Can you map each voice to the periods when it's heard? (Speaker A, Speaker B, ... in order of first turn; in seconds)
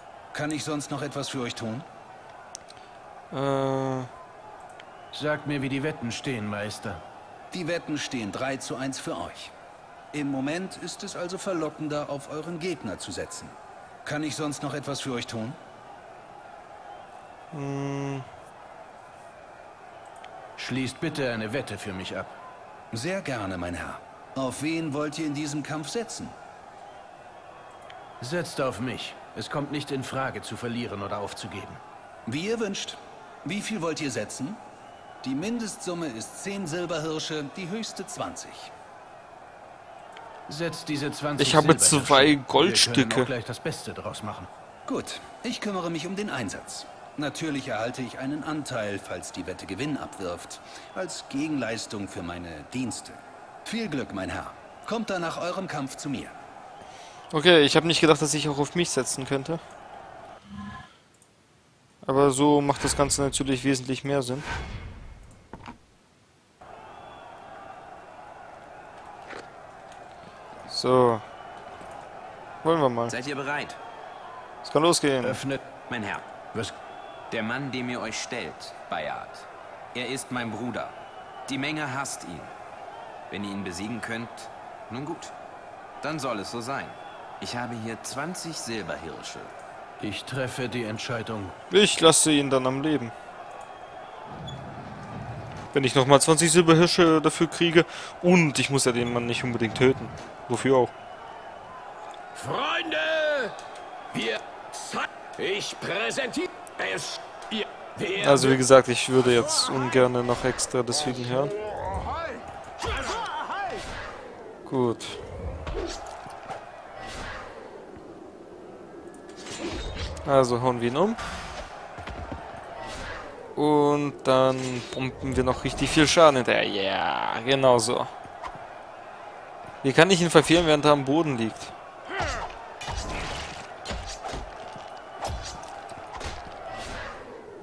Speaker A: 0.3-1.9, 7.5-9.5, 10.1-15.6, 22.9-26.4, 32.3-34.6, 35.2-38.7, 44.9-56.4
Speaker B: 3.3-4.1, 17.5-18.3, 41.4-43.3, 57.3-59.6, 62.0-64.5, 70.7-71.2, 72.6-73.1, 74.6-75.4, 91.7-93.1, 95.7-100.9, 108.2-111.5, 114.7-115.2, 120.2-121.2, 123.6-128.1, 129.8-131.7
Speaker C: 5.1-7.0, 20.6-22.3, 28.2-31.8, 40.5-44.5, 75.2-75.6, 90.0-91.6
Speaker D: 73.1-73.8, 75.9-76.3, 77.3-82.5, 83.3-85.3, 86.0-89.5
Speaker E: 102.3-103.6, 104.1-108.6, 111.8-113.8